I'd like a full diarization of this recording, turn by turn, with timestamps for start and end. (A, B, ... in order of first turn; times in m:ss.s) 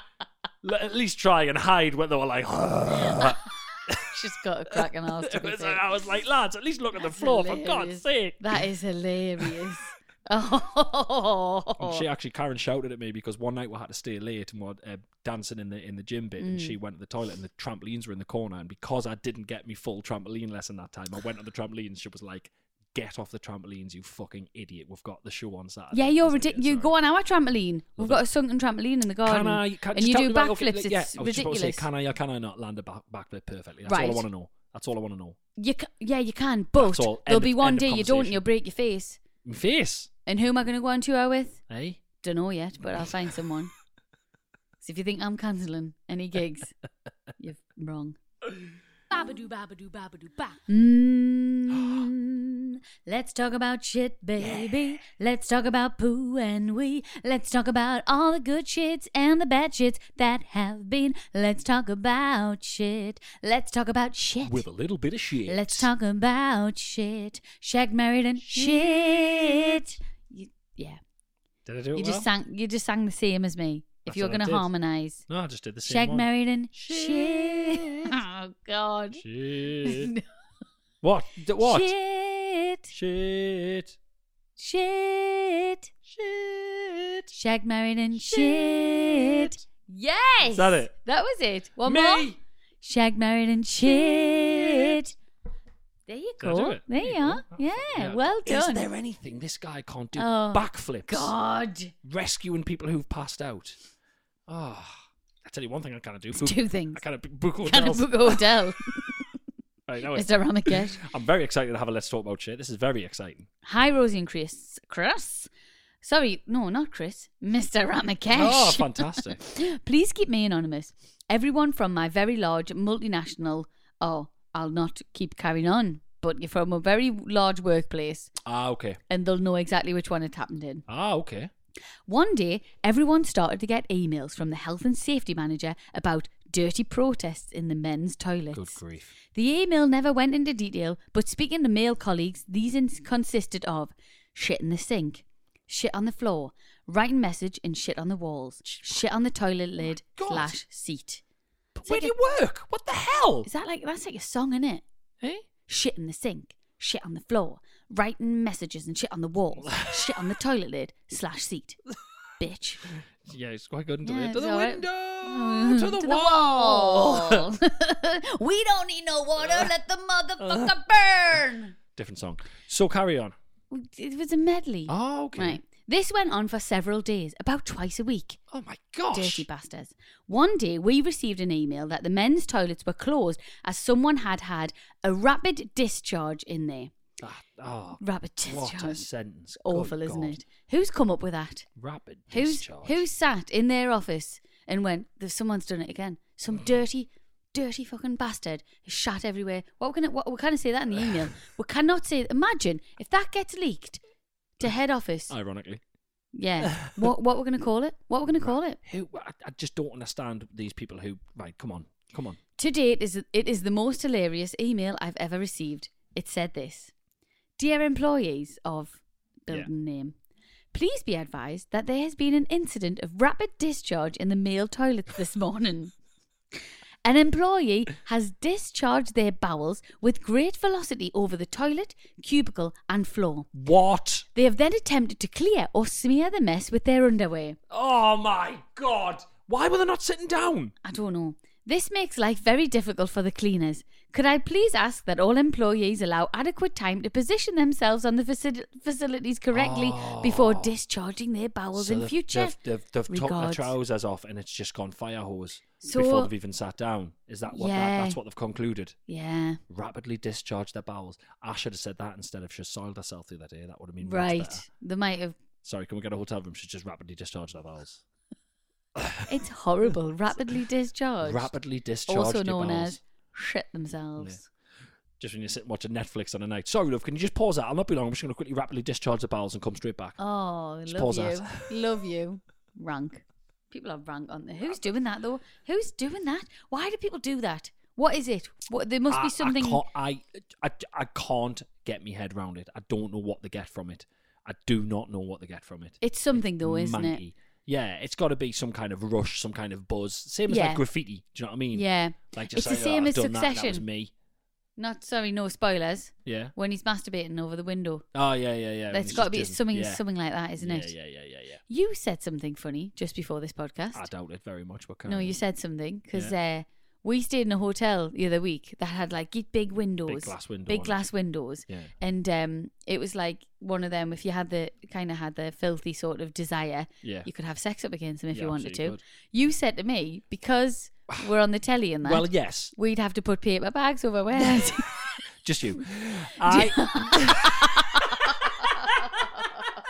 0:00.6-0:04.1 A
0:04.1-0:05.8 B
0:04.7-0:08.6 A
0:07.0-0:12.0 B
0:11.8-0:26.9 A
0:16.4-0:16.8 B
0:25.9-0:31.8 B
0:29.2-0:35.4 A
0:33.8-0:34.2 B
0:35.6-0:39.2 B
0:36.8-0:38.4 A
0:39.4-0:40.1 A
0:40.3-0:41.6 B
0:41.7-0:42.0 A
0:42.2-0:43.7 B
0:44.8-0:46.7 B
0:47.4-0:48.2 B
0:49.1-1:04.6 B
0:54.4-0:54.9 A
1:04.4-1:05.9 A
1:05.5-1:11.0 B
1:08.4-1:09.8 A
1:11.6-1:12.3 A
1:11.9-1:15.2 B
1:14.0-1:14.7 A
1:15.3-1:18.1 A
1:15.9-1:19.2 B
1:19.2-1:20.1 A
1:19.8-1:20.2 B
1:21.0-1:21.9 A
1:21.6-1:22.9 B
1:22.9-1:24.0 A
1:24.6-1:25.9 B
1:26.1-1:27.3 A
1:27.3-1:35.1 B
1:28.2-1:29.6 A
1:30.4-1:30.9 A
1:31.8-1:32.4 A
1:33.8-1:35.0 A
1:36.1-1:38.8 B
1:36.4-1:41.3 A
1:40.2-1:41.9 B
1:42.0-1:43.8 A
1:44.5-1:48.6 A
1:46.3-1:47.0 B
1:47.7-1:48.9 B
1:49.9-1:53.5 A
1:50.1-1:51.0 B
1:53.6-1:55.5 B
1:56.0-2:08.3 B
1:58.3-1:59.4 A
2:08.4-2:09.0 A
2:09.1-2:10.8 B
2:10.9-2:11.5 A
2:12.1-2:18.8 B
2:18.5-2:19.1 A
2:19.3-2:31.2 B
2:28.6-2:29.0 A
2:30.0-2:30.6 A
2:31.7-2:33.5 A
2:31.8-2:32.1 B
2:33.4-2:34.8 B
2:35.7-2:41.8 B
2:39.6-2:40.2 A
2:42.4-2:42.8 B
2:43.2-2:47.4 A
2:44.0-2:51.7 B
2:49.4-2:49.7 A
2:50.4-2:50.7 A
2:52.0-2:53.3 A
2:53.7-2:58.4 B
2:54.9-2:55.6 A
2:58.5-2:59.4 A
2:59.1-3:06.9 B
3:07.2-3:10.4 A
3:08.0-3:09.0 B
3:09.6-3:11.6 B
3:11.8-3:13.0 A
3:12.3-3:24.0 B
3:24.6-3:25.3 B
3:25.3-3:25.8 A
3:26.3-3:28.8 B
3:28.4-3:32.4 A
3:32.6-3:36.9 B
3:37.6-3:40.1 B
3:40.7-3:45.9 B
3:47.0-3:53.5 B
3:53.5-3:54.2 A
3:54.3-3:57.6 B
3:57.7-4:00.7 A
4:00.8-4:12.5 B
4:09.5-4:10.7 A
4:11.8-4:19.0 A
4:13.1-4:13.7 B
4:15.8-4:16.3 B
4:17.5-4:18.2 B
4:19.1-4:19.6 B
4:19.7-4:24.6 A
4:24.0-4:25.4 B
4:25.6-4:28.0 A
4:29.0-4:29.3 A
4:29.3-4:31.5 B
4:31.2-4:33.0 A
4:32.1-4:34.4 B
4:35.2-4:40.2 A
4:40.2-4:49.8 B
4:40.9-4:41.8 A
4:49.1-5:04.1 A
4:56.0-4:57.2 B
5:00.5-5:00.8 B
5:01.7-5:03.8 B
5:04.8-5:08.0 B
5:06.2-5:06.5 A
5:08.1-5:10.0 A
5:08.9-5:10.9 B
5:10.6-5:11.6 A
5:11.7-5:14.0 B
5:13.9-5:15.4 A
5:15.0-5:34.9 B
5:20.1-5:21.1 A
5:21.7-5:21.9 A
5:27.0-5:27.3 A
5:28.3-5:29.0 A
5:32.0-5:32.7 A
5:34.4-5:39.3 A
5:36.5-5:39.6 B